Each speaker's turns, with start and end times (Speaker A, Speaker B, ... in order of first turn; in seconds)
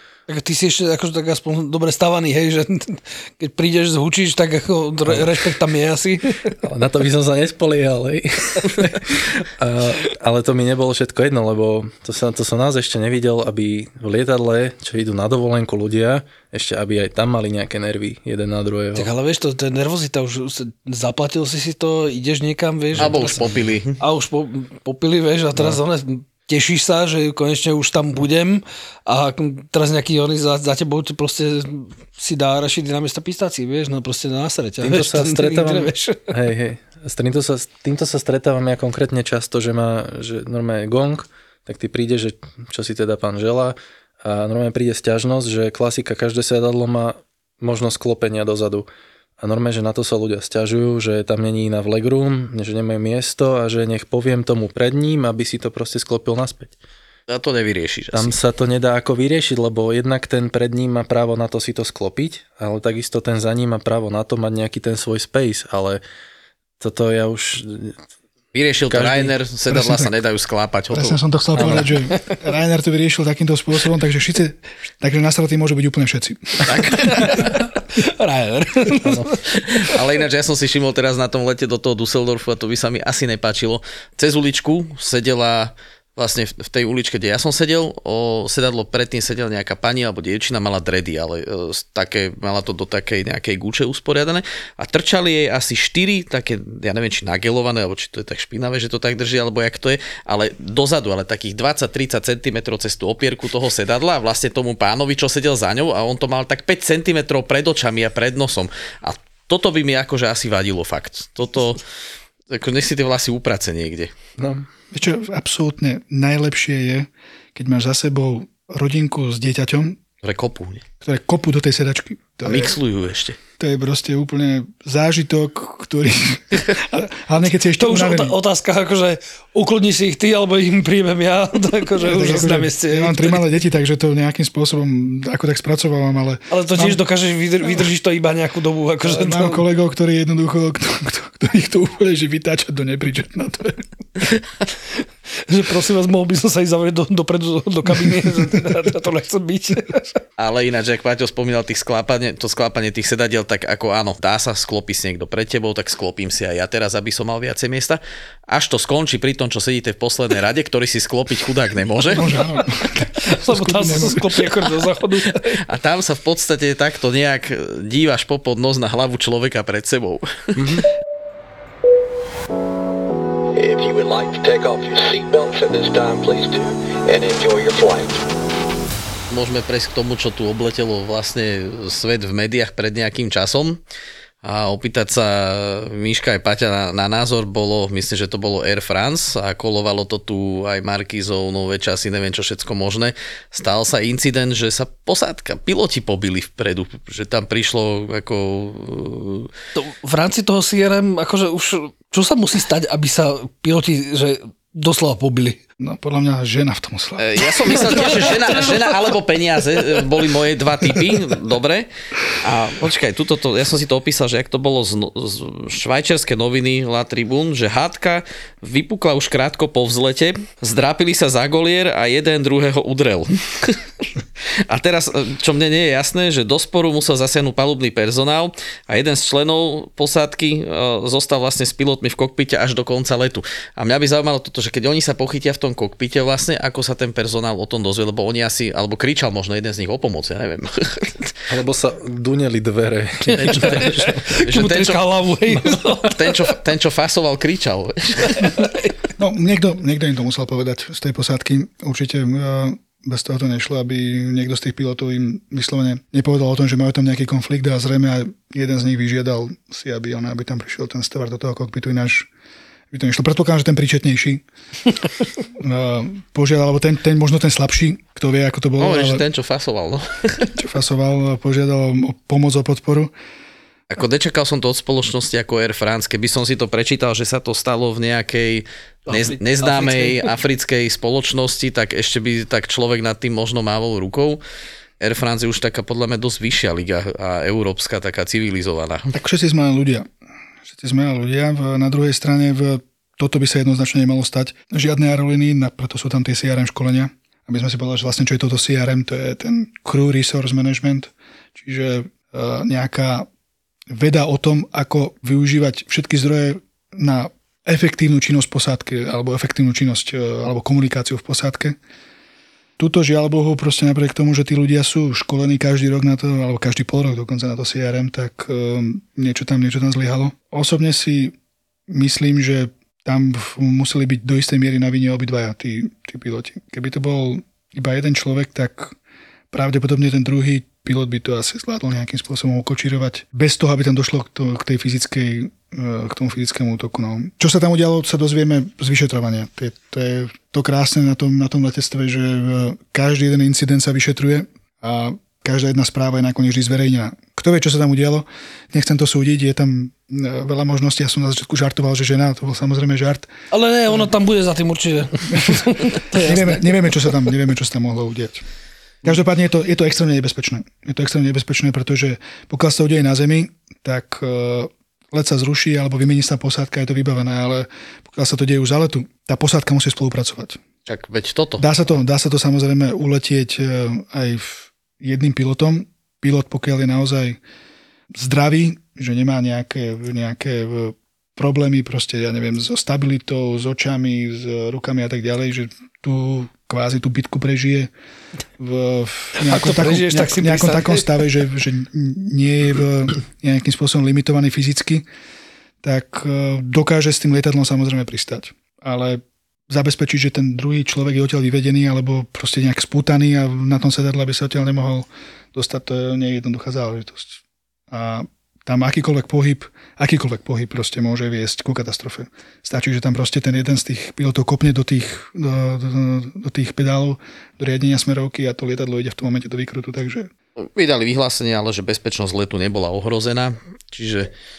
Speaker A: 0.3-6.5, 18.9-23.4, 24.0-36.3, 76.9-79.7, 127.8-133.4, 136.5-139.6, 145.5-150.2, 163.2-165.6, 199.7-205.6, 243.4-246.3, 248.3-249.1, 279.1-280.3, 353.5-357.0, 389.4-391.2
Speaker B: 5.1-5.3, 6.6-19.1, 22.9-23.2, 25.5-25.8, 34.8-48.9, 49.4-56.8, 58.1-66.0, 66.8-68.0, 68.9-69.3, 71.6-71.8, 79.0-79.4, 114.4-114.7, 170.6-170.8, 241.5-244.2, 245.5-246.1
Speaker C: 23.0-23.9, 57.3-58.4, 68.5-71.9, 76.6-77.6, 79.8-111.8, 112.5-114.1, 120.2-120.8, 122.4-123.4, 150.4-162.6, 165.7-170.8, 179.3-183.8, 184.4-199.5, 207.2-224.1, 224.7-241.3, 244.4-245.1, 246.1-248.6, 268.8-270.5, 273.9-284.4, 285.0-289.1, 370.9-371.6, 420.6-424.3
Speaker D: 69.7-70.1, 70.9-77.4, 114.9-120.0, 121.0-122.7, 123.6-128.3, 132.0-137.0, 139.0-143.8, 147.9-148.2, 162.1-164.3, 205.8-208.6, 249.2-262.3, 262.9-264.4, 265.6-269.2, 270.6-273.1, 289.1-290.1, 290.7-303.3, 303.9-311.8, 312.8-321.3, 321.9-328.9, 329.5-353.3, 355.3-358.4, 359.0-370.6, 371.6-377.4, 378.1-387.9, 388.6-395.0, 395.8-407.4, 407.9-420.3
Speaker E: 173.5-178.2